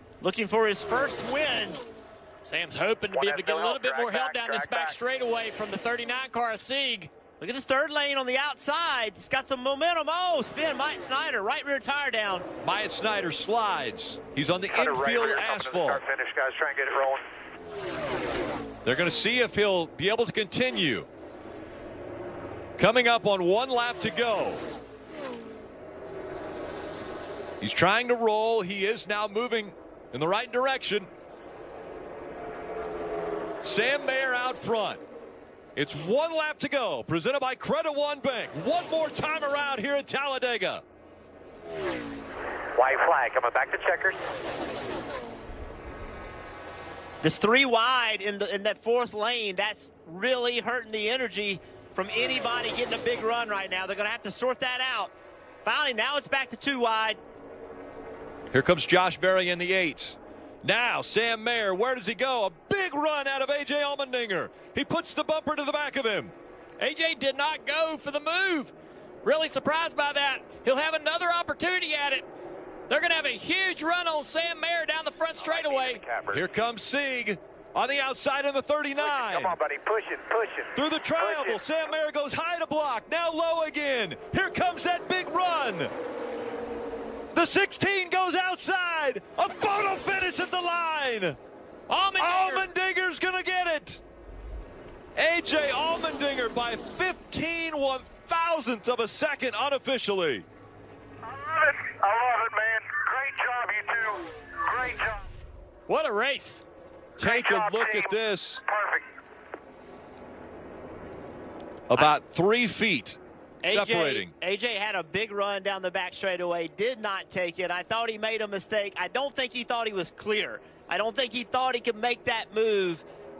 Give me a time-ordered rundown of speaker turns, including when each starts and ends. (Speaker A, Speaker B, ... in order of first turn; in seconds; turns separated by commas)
Speaker A: 0.2-1.8, Speaker B: 2.4-7.1, Speaker C: 3.1-5.0, Speaker A: 7.4-12.5, Speaker D: 12.6-16.0, Speaker C: 14.7-17.2, Speaker D: 18.8-21.1, Speaker D: 22.8-24.6, Speaker D: 27.6-31.1, Speaker D: 33.6-35.0, Speaker D: 35.8-40.8, Speaker C: 42.7-44.2, Speaker A: 47.2-55.1, Speaker A: 55.6-57.2, Speaker D: 58.5-66.3, Speaker B: 66.8-68.7, Speaker B: 69.2-72.3, Speaker B: 72.9-76.0, Speaker C: 75.4-76.5, Speaker D: 76.3-79.5, Speaker C: 79.0-81.6, Speaker D: 80.7-85.9, Speaker D: 87.3-91.4, Speaker B: 91.9-92.7, Speaker D: 92.2-94.0, Speaker D: 95.2-100.4, Speaker C: 101.2-105.2, Speaker B: 105.9-106.6, Speaker D: 107.2-108.6, Speaker C: 107.2-109.1, Speaker D: 111.9-114.3, Speaker A: 113.6-123.0